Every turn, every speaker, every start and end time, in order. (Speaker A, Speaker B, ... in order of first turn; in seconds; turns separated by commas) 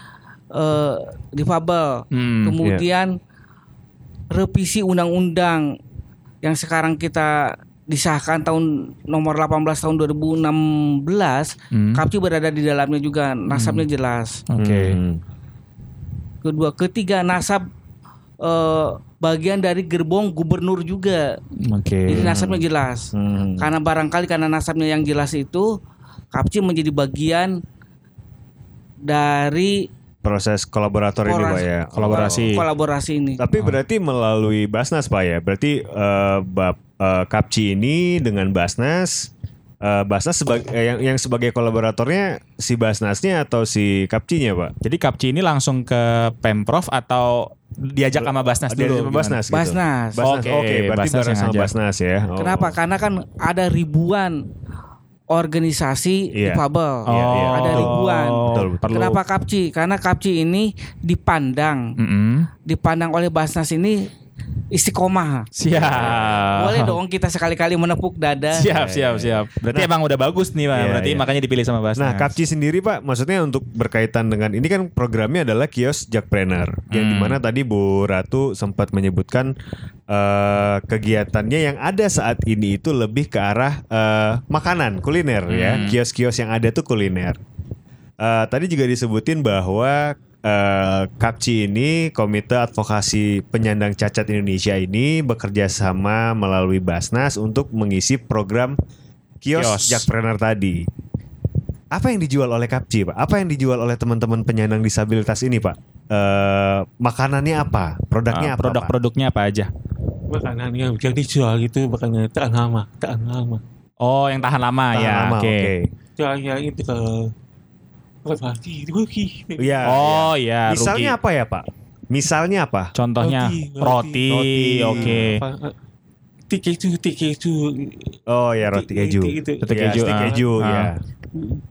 Speaker A: 0.5-3.1, Speaker B: 2.1-2.6, Speaker A: 4.3-5.7, Speaker A: 6.4-14.4, Speaker B: 11.7-12.0, Speaker B: 13.5-13.8, Speaker B: 14.5-15.0, Speaker C: 14.6-15.2, Speaker A: 16.4-17.6, Speaker A: 18.4-21.2, Speaker B: 21.6-22.3, Speaker A: 22.1-25.7, Speaker C: 22.1-22.6, Speaker C: 23.1-23.7, Speaker A: 26.3-27.5, Speaker A: 29.0-29.9, Speaker C: 30.2-32.5, Speaker A: 31.2-33.4, Speaker B: 31.9-32.6, Speaker C: 33.4-39.3, Speaker C: 39.8-44.7, Speaker B: 44.8-49.4, Speaker C: 48.2-52.7, Speaker A: 49.5-50.2, Speaker B: 50.2-51.7, Speaker A: 52.4-54.4, Speaker A: 55.3-61.8, Speaker C: 56.3-58.9, Speaker B: 57.1-59.2, Speaker B: 62.0-62.5, Speaker A: 62.6-64.0, Speaker A: 64.7-65.5, Speaker B: 65.6-67.0, Speaker C: 65.7-66.5, Speaker A: 66.5-68.7, Speaker B: 68.5-72.3, Speaker C: 68.7-69.9, Speaker C: 70.7-71.3, Speaker C: 72.0-79.5, Speaker B: 76.9-77.4, Speaker C: 80.1-87.4, Speaker B: 85.5-86.0, Speaker C: 88.2-98.8, Speaker C: 99.4-100.8, Speaker B: 99.5-100.0, Speaker C: 101.9-108.9, Speaker B: 108.3-109.7, Speaker D: 110.3-113.6, Speaker B: 114.0-115.7, Speaker C: 114.9-115.9, Speaker D: 116.2-117.3, Speaker D: 118.2-120.0, Speaker C: 119.6-122.9, Speaker B: 119.9-121.1, Speaker B: 123.0-125.4, Speaker D: 123.2-124.3, Speaker C: 124.3-125.2, Speaker D: 124.9-125.7, Speaker D: 126.5-130.4, Speaker C: 128.3-131.0, Speaker B: 129.6-130.9